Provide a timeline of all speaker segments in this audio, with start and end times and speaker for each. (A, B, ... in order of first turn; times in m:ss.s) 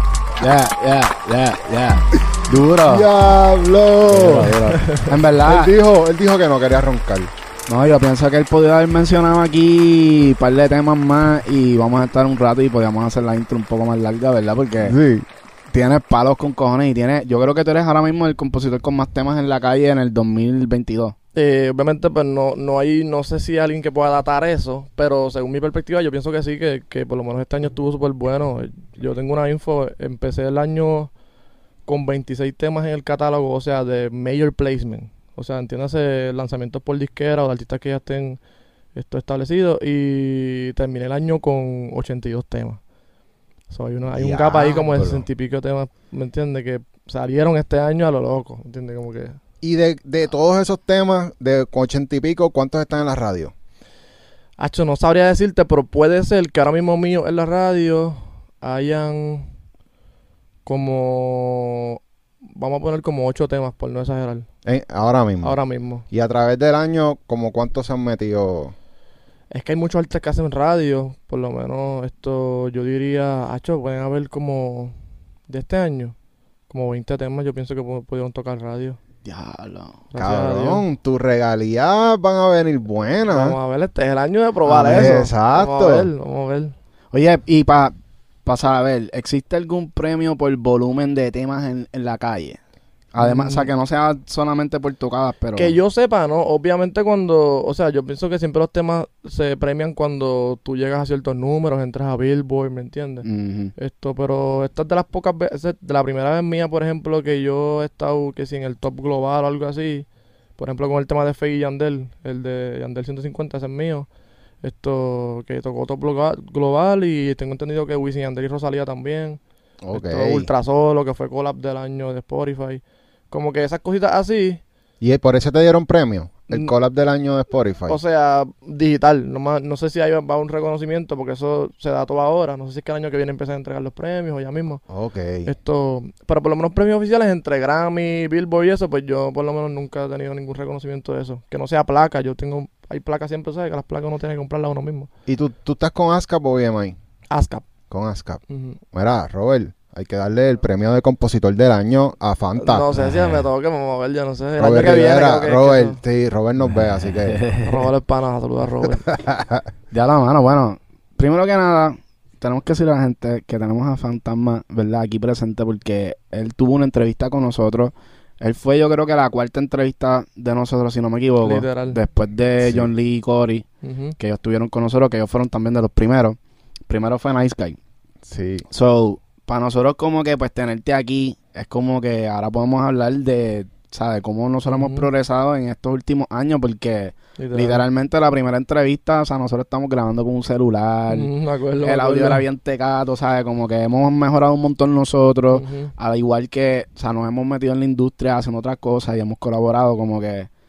0:00.4-0:03.1 A
0:02.8-0:04.7 B
0:04.1-0:05.7 A
0:04.7-0:05.1 C
0:05.4-0:07.3 B
0:07.7-0:15.0 A
0:14.8-0:15.2 B
0:15.7-0:21.1 A
0:21.3-0:31.1 C
0:31.8-0:38.4 C
0:38.9-0:42.8 C
0:43.7-0:49.4 C
0:44.1-0:45.2 B
0:49.6-0:53.5 B
0:54.6-0:59.5 C
1:00.6-1:04.5 C
1:04.6-1:05.6 B
1:05.4-1:06.0 C
1:06.1-1:08.7 B
1:09.5-1:15.0 C
1:15.5-1:16.1 C
1:16.7-1:19.0 C
1:19.2-1:20.0 A
1:20.1-1:20.8 C
1:20.2-1:23.6 B
1:23.3-1:26.7 C
1:24.7-1:26.1 B
1:27.1-1:27.9 A
1:28.4-1:32.6 A
1:33.1-1:35.8 A
1:33.2-1:33.7 C
1:35.5-1:50.1 C
1:43.2-1:43.7 A
1:50.6-1:54.1 C
1:54.6-1:59.4 C
1:59.8-2:00.5 B
1:59.9-2:04.6 C
2:05.0-2:08.0 B
2:07.9-2:14.8 C
2:14.9-2:15.5 B
2:15.4-2:25.1 C
2:25.3-2:27.0 B
2:27.3-2:27.6 C
2:27.9-2:32.9 B
2:28.5-2:28.8 C
2:32.6-2:36.0 C
2:32.9-2:33.4 A
2:34.6-2:37.5 B
2:36.7-2:37.8 A
2:37.6-2:39.1 C
2:39.1-2:39.6 B
2:39.9-2:53.6 A
2:51.4-2:52.0 C
2:52.6-2:52.9 B
2:53.8-2:54.2 C
2:54.2-2:57.8 A
2:58.2-2:58.6 B
2:58.7-3:11.3 A
3:04.7-3:05.1 C
3:07.4-3:07.8 C
3:11.1-3:12.4 C
3:11.8-3:20.5 A
3:15.5-3:15.9 C